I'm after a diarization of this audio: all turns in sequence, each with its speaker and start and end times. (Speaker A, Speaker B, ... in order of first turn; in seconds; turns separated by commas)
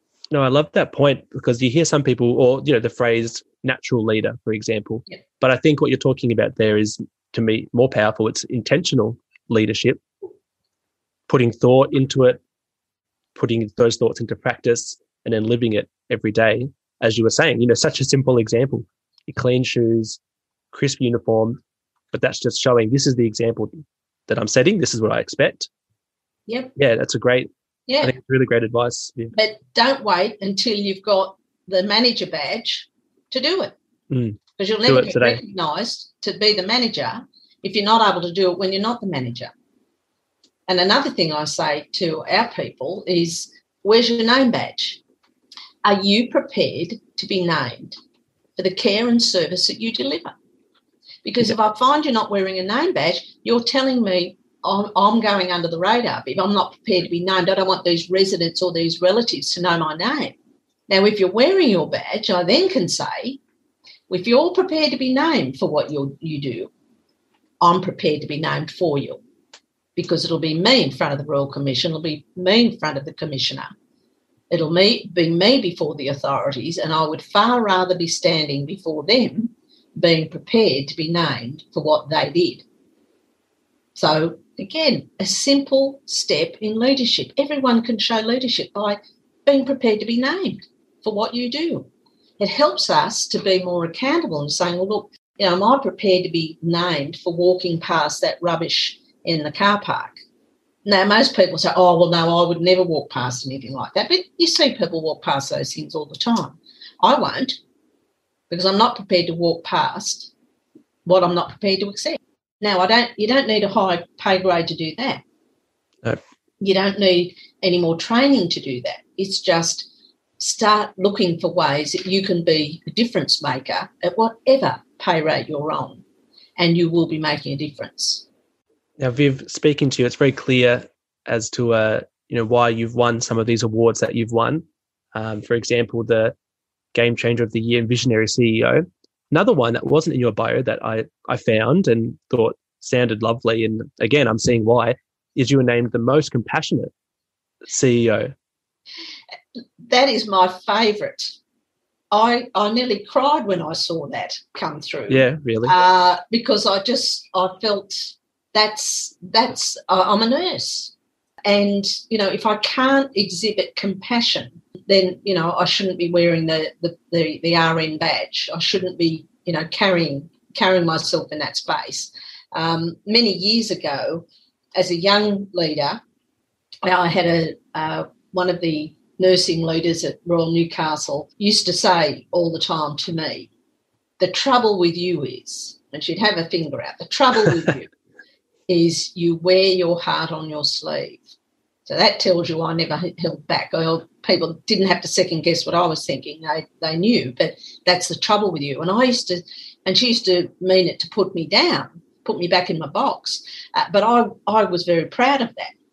Speaker A: 0.3-10.0, Speaker A: 11.3-12.4, Speaker A: 13.3-20.2, Speaker A: 20.7-21.6, Speaker A: 22.1-23.7, Speaker A: 24.3-25.7, Speaker A: 26.8-27.5, Speaker B: 27.9-28.1, Speaker A: 28.0-29.3, Speaker B: 29.3-33.7, Speaker A: 34.1-35.4, Speaker B: 34.6-39.5, Speaker B: 40.7-45.0, Speaker B: 45.8-48.0, Speaker B: 48.6-50.3, Speaker B: 51.2-60.3, Speaker B: 60.9-63.4, Speaker B: 64.1-66.7, Speaker B: 67.6-69.2, Speaker B: 70.0-73.7, Speaker B: 74.5-82.6, Speaker B: 83.9-91.9, Speaker B: 92.4-100.2, Speaker B: 100.8-107.6, Speaker B: 108.5-110.3, Speaker B: 111.0-115.2, Speaker B: 116.6-119.9, Speaker B: 120.4-126.0, Speaker B: 126.6-128.2, Speaker A: 129.0-136.3, Speaker A: 136.9-146.9, Speaker A: 147.7-148.3, Speaker B: 149.8-151.3, Speaker B: 152.1-160.9, Speaker A: 155.1-155.8, Speaker B: 161.4-176.0, Speaker B: 176.8-183.5, Speaker B: 184.2-187.9, Speaker B: 188.7-191.2, Speaker B: 191.8-205.7